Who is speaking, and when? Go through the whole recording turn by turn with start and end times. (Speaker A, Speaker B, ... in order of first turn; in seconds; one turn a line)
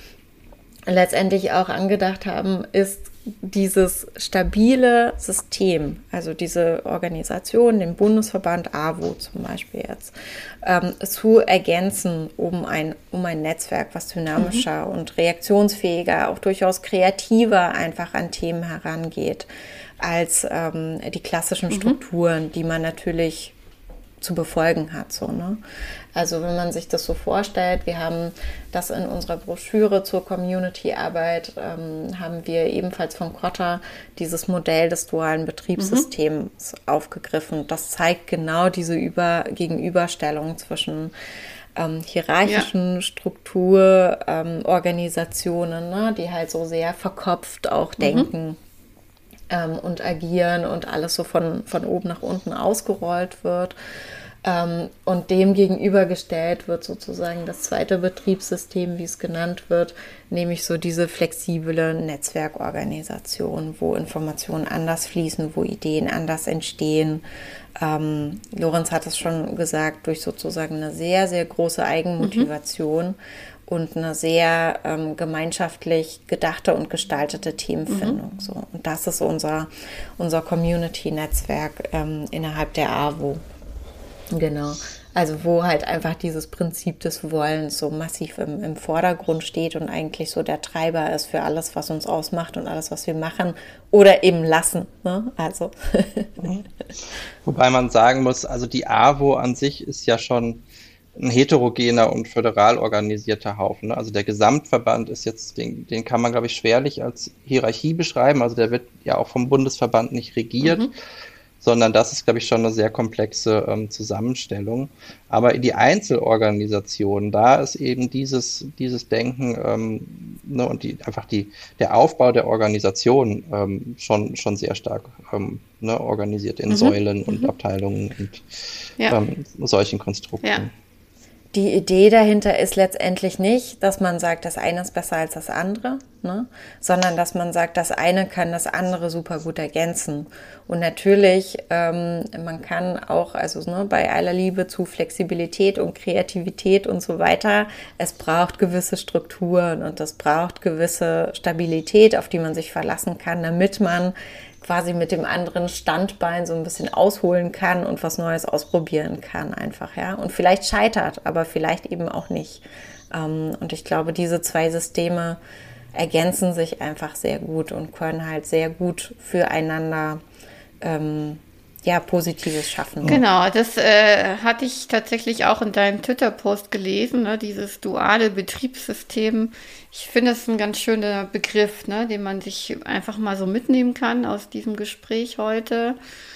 Speaker A: 0.9-19.5
Speaker B: 14.4-14.6
Speaker A: 20.0-23.5
Speaker B: 21.7-22.0
Speaker A: 24.2-25.6
Speaker A: 26.1-41.1
Speaker B: 35.8-36.0
Speaker A: 41.7-48.6
Speaker B: 48.0-48.3
Speaker A: 49.5-53.7
Speaker A: 54.4-67.2
Speaker A: 67.8-83.4
Speaker B: 72.2-72.5
Speaker B: 77.9-78.2
Speaker A: 84.3-96.5
Speaker C: 96.4-96.7
Speaker C: 97.4-100.6
Speaker C: 101.2-110.9
Speaker B: 110.6-110.9
Speaker C: 111.6-128.4
Speaker B: 126.7-127.5
Speaker C: 129.1-130.7
Speaker A: 131.5-165.4
Speaker A: 165.9-170.2
Speaker A: 170.8-173.2
Speaker B: 173.0-186.0